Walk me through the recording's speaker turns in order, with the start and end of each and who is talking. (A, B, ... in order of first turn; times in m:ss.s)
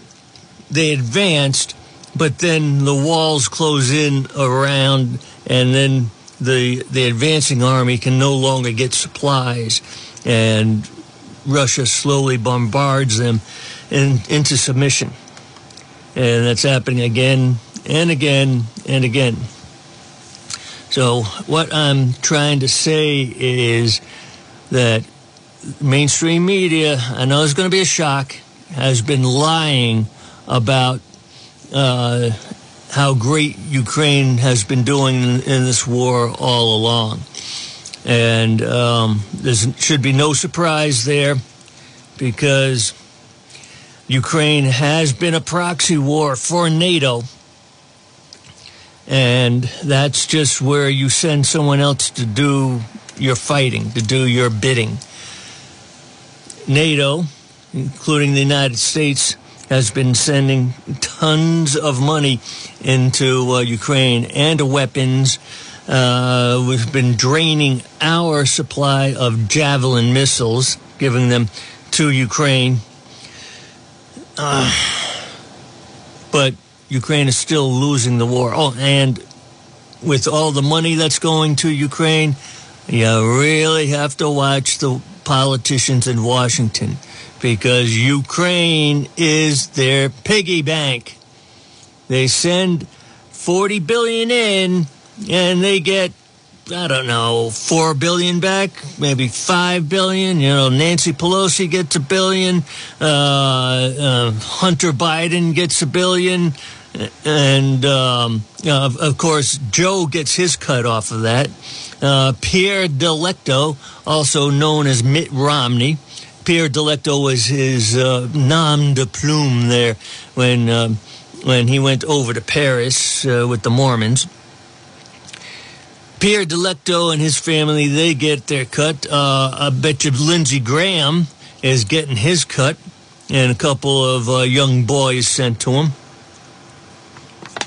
0:00.7-0:10.9 A
0:11.4-0:15.2 A
0:16.2-0:19.5 A
0:20.9-0:24.0 A
0:24.7-0:25.1 A
0:25.6-0:31.0 A
0:31.7-0:32.4 A
0:32.9-0:37.3 A
0:38.0-0:41.4 A
0:42.2-0:43.0 A
0:44.1-0:47.3 A
0:49.1-0:55.0 A
0:56.7-1:12.8 A
1:14.4-1:15.3 A
1:16.3-1:19.2 A
1:20.0-1:22.4 A
1:22.9-1:31.2 A
1:32.1-1:36.1 A
1:36.7-2:04.3 A
2:06.2-2:12.8 A
2:13.3-2:16.0 A